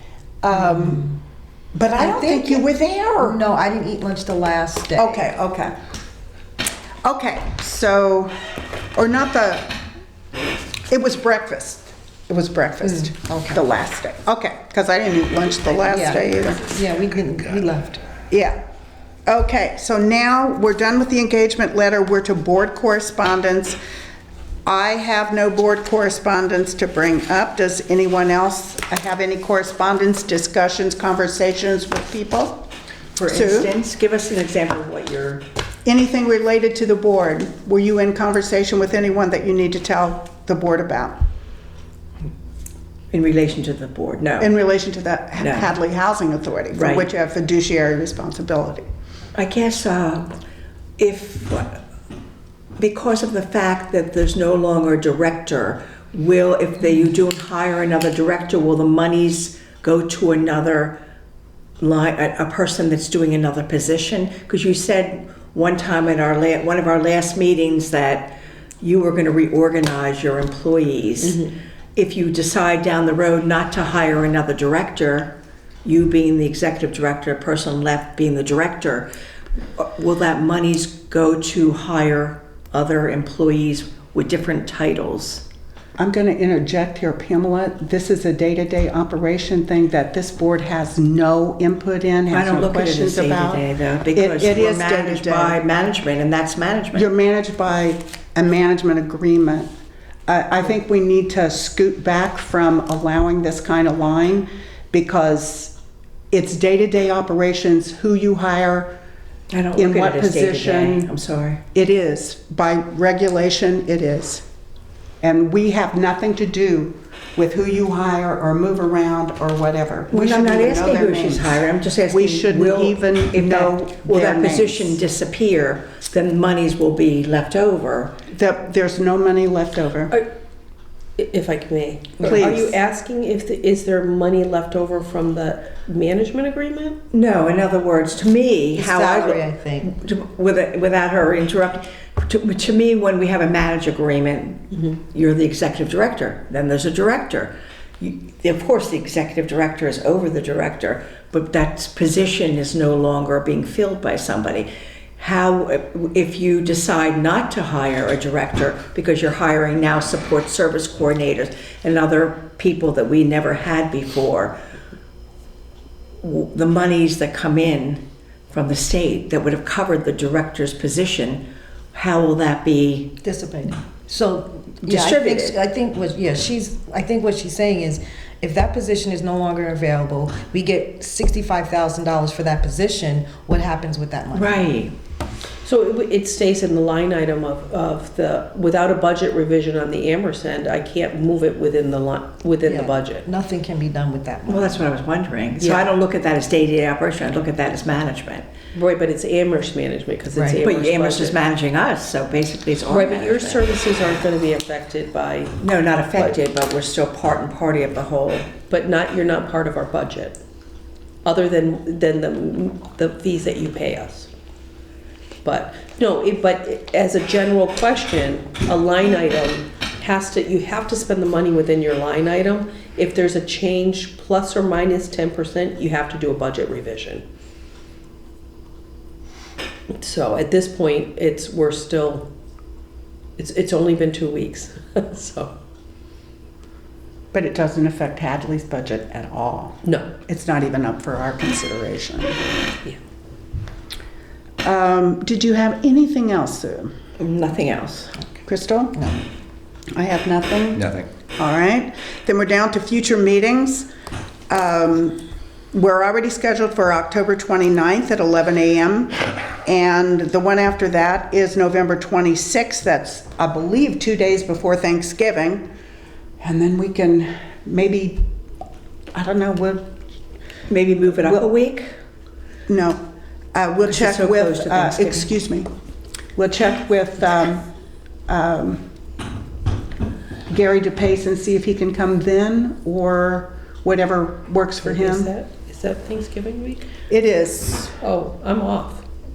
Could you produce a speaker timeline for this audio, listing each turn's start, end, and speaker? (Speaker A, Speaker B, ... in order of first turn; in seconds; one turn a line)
Speaker A: 0.4-1.1
Speaker A: 1.7-3.4
Speaker B: 1.9-2.6
Speaker B: 3.2-5.3
Speaker A: 5.0-5.7
Speaker A: 7.0-8.3
Speaker A: 8.9-9.8
Speaker A: 10.9-16.7
Speaker B: 12.8-13.6
Speaker B: 15.8-18.0
Speaker A: 18.3-18.6
Speaker A: 19.2-23.8
Speaker A: 24.6-32.6
Speaker C: 33.2-35.4
Speaker A: 33.2-33.7
Speaker A: 35.8-41.1
Speaker C: 43.1-44.5
Speaker A: 44.4-48.9
Speaker C: 45.4-45.7
Speaker C: 46.7-47.1
Speaker C: 49.3-50.3
Speaker C: 51.0-51.8
Speaker C: 52.8-61.0
Speaker C: 61.8-75.3
Speaker D: 71.2-71.5
Speaker C: 75.8-79.1
Speaker C: 79.8-85.4
Speaker A: 86.0-93.6
Speaker C: 92.3-97.1
Speaker A: 94.1-95.6
Speaker A: 96.9-99.7
Speaker A: 100.3-105.7
Speaker A: 106.3-108.9
Speaker C: 109.5-111.6
Speaker A: 109.8-111.1
Speaker A: 111.7-114.4
Speaker A: 115.2-121.4
Speaker C: 120.1-128.1
Speaker A: 122.1-125.0
Speaker A: 128.3-130.2
Speaker D: 131.2-137.0
Speaker A: 132.2-132.7
Speaker C: 137.1-164.6
Speaker B: 138.7-139.9
Speaker C: 166.2-171.4
Speaker C: 171.9-173.2
Speaker B: 173.2-184.7
Speaker C: 174.8-175.6
Speaker C: 184.3-184.9
Speaker D: 185.6-193.2
Speaker B: 192.7-194.8
Speaker C: 194.5-198.4
Speaker D: 195.6-195.9
Speaker D: 198.7-201.4
Speaker B: 200.3-200.6
Speaker C: 200.6-203.7
Speaker D: 202.9-205.6
Speaker C: 205.6-208.5
Speaker D: 208.7-210.4
Speaker D: 211.2-214.3
Speaker D: 215.4-227.2
Speaker D: 229.9-232.2
Speaker D: 233.4-235.5
Speaker A: 237.3-242.4
Speaker A: 244.6-246.9
Speaker C: 247.2-248.1
Speaker A: 248.4-249.0
Speaker A: 249.9-253.9
Speaker A: 254.5-255.2
Speaker A: 255.7-265.6
Speaker A: 266.4-268.2
Speaker A: 269.1-269.8
Speaker C: 270.7-271.9
Speaker A: 272.7-273.0
Speaker A: 273.5-275.7
Speaker C: 273.8-275.3
Speaker A: 276.4-277.6
Speaker A: 278.3-278.8
Speaker A: 280.5-285.3
Speaker D: 284.8-286.9
Speaker A: 287.1-287.9
Speaker D: 288.0-289.0